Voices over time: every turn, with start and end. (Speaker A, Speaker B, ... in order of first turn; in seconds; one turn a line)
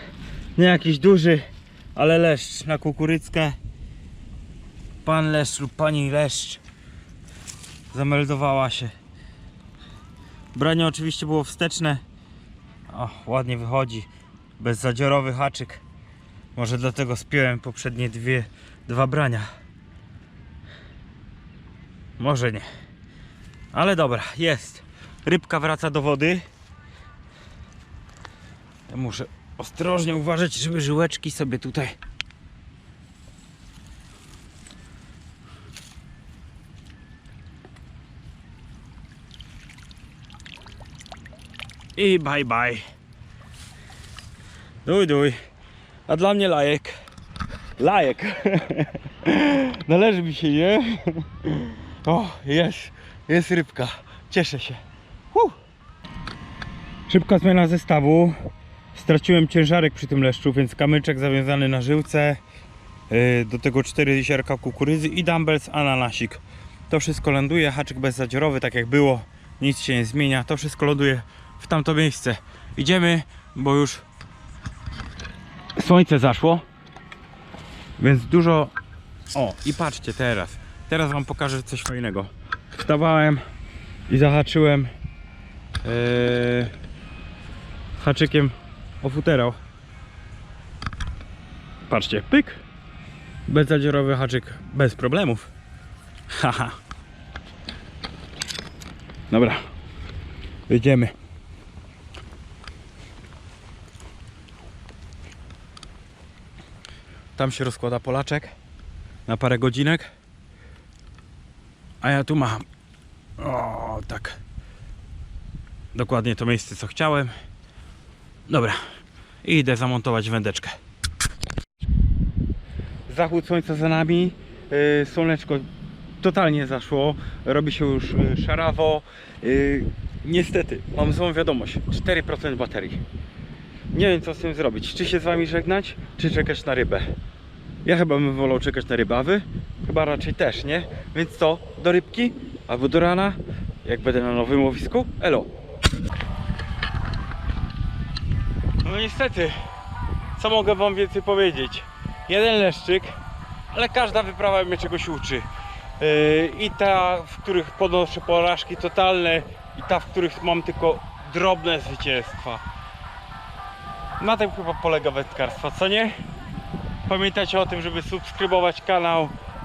Speaker A: 0.6-3.6
Speaker A: 5.0-6.6
Speaker A: 7.9-8.9
Speaker A: 10.5-12.0
Speaker A: 12.9-14.1
Speaker A: 14.6-15.8
Speaker A: 16.6-19.5
Speaker A: 22.2-22.6
Speaker A: 23.7-26.5
Speaker A: 28.9-32.0
Speaker A: 42.0-42.9
Speaker A: 44.8-45.4
Speaker A: 46.1-47.0
Speaker A: 47.8-54.8
Speaker A: 57.1-58.4
Speaker A: 58.9-62.4
Speaker A: 63.1-74.0
Speaker A: 75.8-76.6
Speaker A: 78.0-78.7
Speaker A: 79.3-83.4
Speaker A: 84.1-84.9
Speaker A: 85.8-86.7
Speaker A: 88.0-89.6
Speaker A: 91.9-92.6
Speaker A: 93.5-95.5
Speaker A: 96.3-96.8
Speaker A: 99.3-99.6
Speaker A: 100.7-101.1
Speaker A: 107.4-108.5
Speaker A: 109.3-110.1
Speaker A: 112.0-112.7
Speaker A: 113.4-114.4
Speaker A: 115.9-117.3
Speaker A: 118.5-118.8
Speaker A: 119.4-120.8
Speaker A: 123.1-125.7
Speaker A: 126.2-133.0
Speaker A: 133.9-137.1
Speaker A: 137.8-145.5
Speaker A: 148.8-149.6
Speaker A: 150.4-153.2
Speaker A: 153.7-155.5
Speaker A: 156.0-162.6
Speaker A: 164.2-166.2
Speaker A: 167.1-169.3